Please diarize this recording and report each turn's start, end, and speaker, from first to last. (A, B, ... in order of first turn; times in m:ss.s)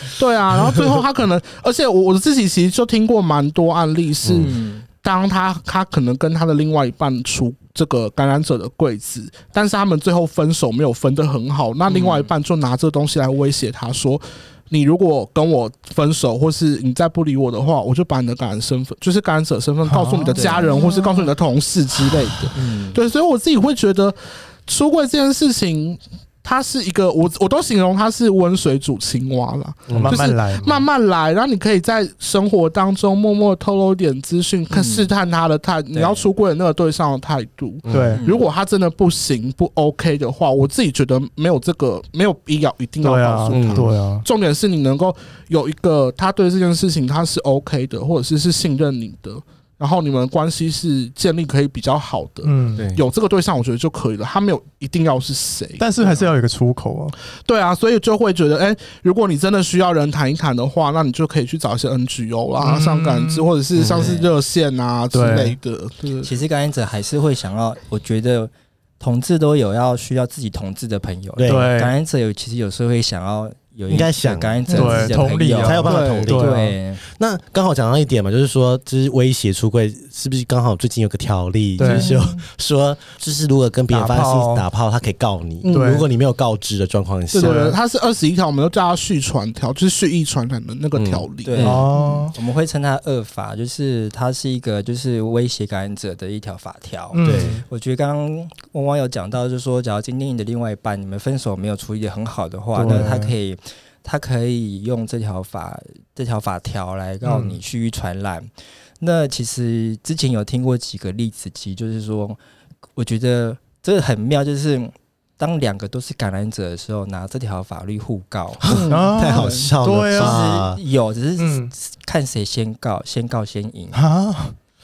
0:00.1-0:56.3 A
0:00.5-0:01.0 B
0:04.2-0:04.5 B
0:04.4-0:04.8 C
0:11.9-0:12.3 C
0:19.9-0:20.9 D
0:20.3-0:21.2 C
0:22.5-0:23.0 C
0:29.9-0:30.2 B
0:29.9-0:30.9 D
0:34.7-0:35.1 C
0:35.9-0:36.3 C
0:37.8-0:38.2 B
0:37.9-0:38.2 D
0:38.1-0:38.5 C
0:43.0-0:44.2 D
0:43.5-0:43.9 B
0:52.4-0:52.9 D
0:52.8-0:53.0 B
0:55.8-0:57.1 D
0:57.4-1:06.3 A
1:02.6-1:03.5 D
1:03.8-1:04.1 B
1:03.8-1:04.3 C
1:05.1-1:05.6 D
1:06.2-1:17.0 C
1:11.4-1:11.7 B
1:11.4-1:11.9 D
1:13.9-1:14.6 B
1:14.7-1:15.1 A
1:14.7-1:16.7 D
1:15.5-1:27.7 B
1:21.8-1:22.1 D
1:21.8-1:22.4 A
1:23.9-1:24.6 D
1:25.6-1:26.0 A
1:25.7-1:26.1 D
1:27.3-1:32.3 A
1:27.4-1:27.8 D
1:30.9-1:31.2 B
1:31.4-1:48.5 C
1:31.6-1:32.3 D
1:37.1-1:37.6 D
1:37.2-1:37.6 B
1:42.7-1:43.3 D
1:47.2-1:47.6 D
1:49.0-1:52.4 C
1:53.0-1:58.6 C
1:58.6-2:00.8 B
1:58.7-1:59.7 A
1:58.9-2:00.4 D
2:00.1-2:04.0 C
2:01.4-2:01.7 D
2:03.9-2:04.6 D